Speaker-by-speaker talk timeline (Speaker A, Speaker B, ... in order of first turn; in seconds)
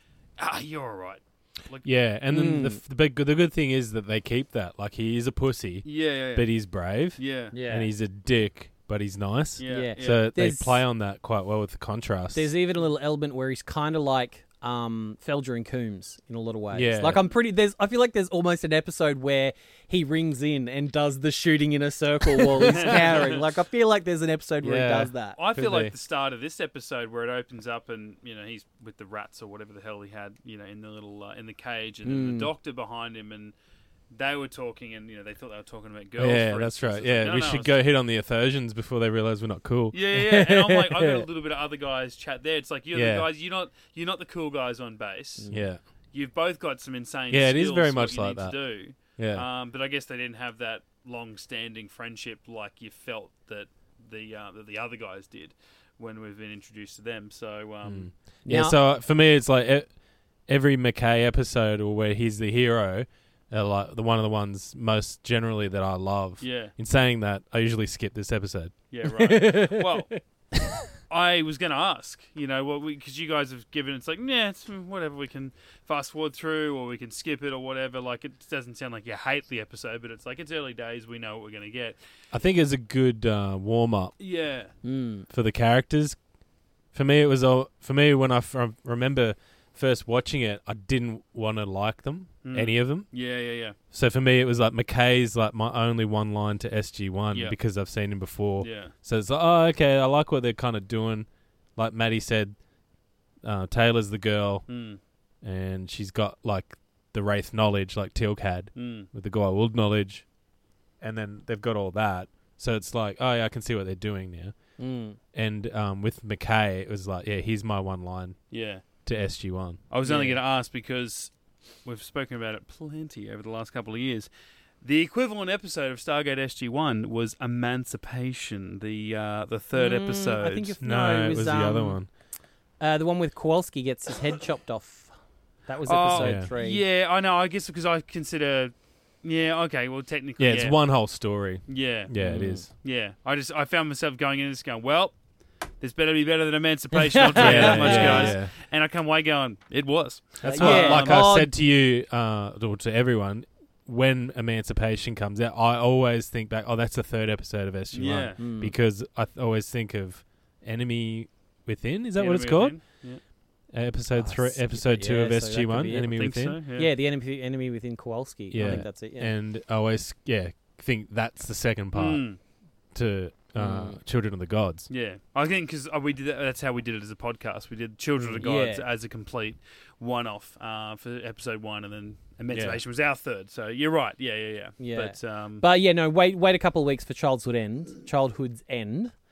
Speaker A: 0.4-1.9, 5.8-6.5, 7.2-7.5, 9.6-10.3, 22.6-23.4, 25.4-33.5, 34.1-37.8, 39.9-45.5, 46.1-58.1, 66.4-66.7, 68.9-70.1, 71.1-82.0, 84.2-84.7, 92.4-93.8, 98.6-98.9, 104.7-105.0, 108.7-109.1, 118.5-118.8, 119.9-121.3, 121.8-124.3, 124.8-130.7, 135.8-140.8, 141.7-142.1, 142.7-145.1, 145.8-151.2, 157.9-158.4, 162.2-163.2, 166.1-166.9, 168.6-168.8, 171.9-172.4, 174.9-185.6
Speaker B: 1.8-12.5, 16.7-17.2, 22.6-22.9, 24.6-25.9, 36.2-41.0, 42.9-43.3, 45.5-45.8, 47.3-48.5, 49.2-49.4, 57.8-59.9, 60.5-68.8, 82.3-84.1, 85.3-86.2, 86.9-93.1, 93.9-102.5, 103.4-104.6, 105.4-110.2, 111.0-114.5, 115.3-118.4, 119.0-120.3, 130.8-132.1, 136.2-136.5, 140.4-142.7, 147.3-148.5, 150.4-162.8, 163.7-166.6, 168.5-172.2, 172.9-174.9, 182.5-182.8
Speaker C: 2.3-2.8, 7.5-7.9, 9.7-10.8, 12.3-25.4, 32.0-32.5, 45.4-45.7, 58.5-58.8, 69.4-69.8, 84.8-85.3, 114.8-115.2, 120.0-120.3, 129.7-132.0, 132.8-135.1, 135.7-136.8, 142.2-142.7, 146.9-148.3, 150.4-151.5, 158.4-158.7, 164.1-169.3, 173.6-174.0, 178.2-178.8, 184.8-189.1